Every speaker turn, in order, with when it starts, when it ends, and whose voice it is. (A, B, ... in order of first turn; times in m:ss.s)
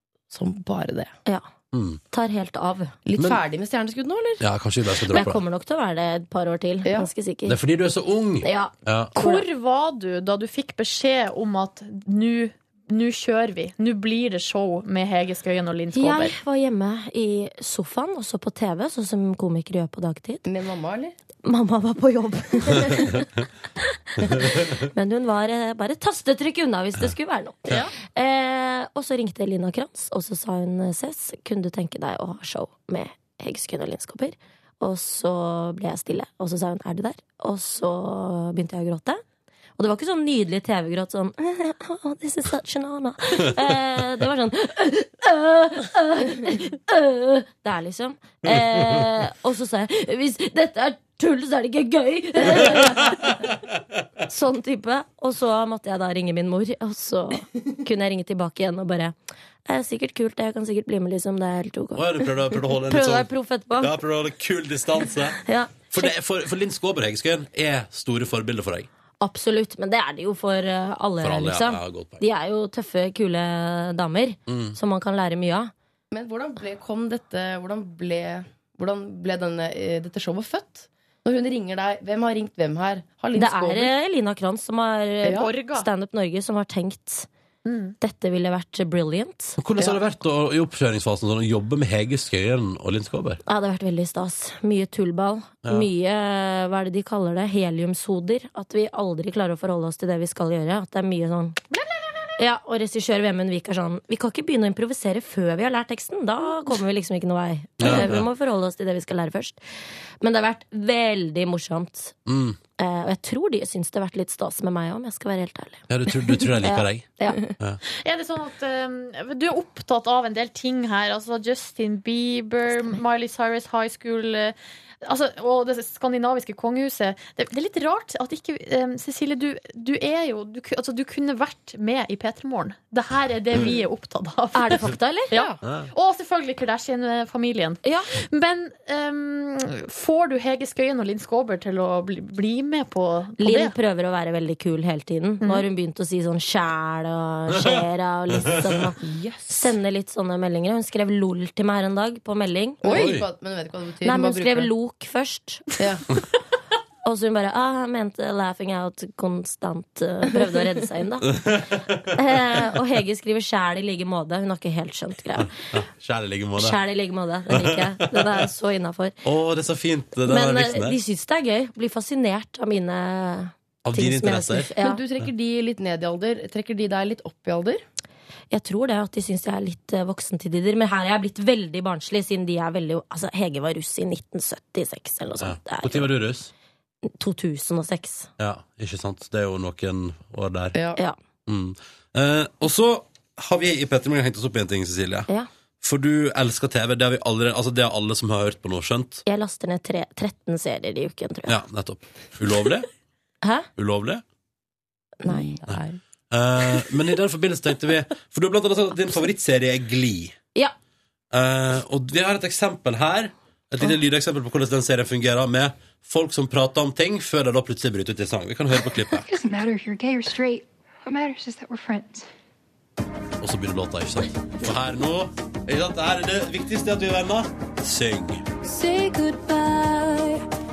0:00.3-0:01.1 A
0:01.7-0:02.0 B
0:02.0-0:03.0 C
0:03.0-0:04.4 A
0:04.4-0:05.4 B
0:05.1-0:07.6 C
0:06.8-0:07.1 A
0:07.5-0:09.2 B
0:08.4-0:09.4 C
0:09.2-0:16.4 D
0:15.9-0:20.4 C
0:20.4-0:21.2 A
0:21.4-0:39.2 C
0:39.8-0:53.4 C
0:54.3-0:59.2 C
0:59.7-1:03.9 C
1:02.0-1:03.3 B
1:03.8-1:05.4 B
1:05.3-1:06.1 C
1:05.9-1:08.9 B
1:09.2-1:15.7 C
1:11.2-1:12.2 B
1:14.5-1:14.8 B
1:16.1-1:23.9 A
1:23.3-1:27.3 C
1:25.2-1:25.5 A
1:25.3-1:25.9 D
1:27.6-1:28.0 D
1:28.0-1:29.6 C
1:29.6-1:33.4 B
1:33.5-1:41.6 C
1:42.4-1:49.6 C
1:47.8-1:48.3 B
1:50.2-1:52.2 C
1:52.3-1:52.6 B
1:52.8-1:57.6 C
1:55.9-1:57.1 B
1:57.9-2:23.8 D
2:14.5-2:15.3 C
2:17.8-2:18.2 C
2:23.4-2:29.0 C
2:25.4-2:25.7 D
2:29.0-2:29.8 A
2:29.5-2:33.1 C
2:32.8-2:34.7 A
2:32.9-2:33.2 B
2:34.0-2:35.8 C
2:35.8-2:36.0 A
2:37.0-2:41.4 C
2:41.3-2:42.1 B
2:42.2-2:45.5 C
2:45.7-2:46.8 B
2:46.6-2:49.2 C
2:47.5-2:48.4 B
2:49.2-2:51.0 B
2:50.2-2:55.0 C
2:53.8-2:54.7 B
2:54.8-2:57.8 A
2:58.5-3:06.1 C
3:05.4-3:06.5 B
3:07.2-3:08.3 C
3:08.4-3:10.8 B
3:10.8-3:11.0 A
3:11.5-3:15.3 B
3:15.8-3:19.2 B
3:19.3-3:21.6 C
3:21.5-3:22.9 B
3:23.4-3:23.7 C
3:23.8-3:24.2 B
3:25.2-3:25.6 C
3:25.2-3:26.0 A
3:26.3-3:30.4 B
3:31.3-3:39.3 B
3:39.2-3:42.3 E
3:43.4-3:48.4 B
3:48.6-3:50.4 E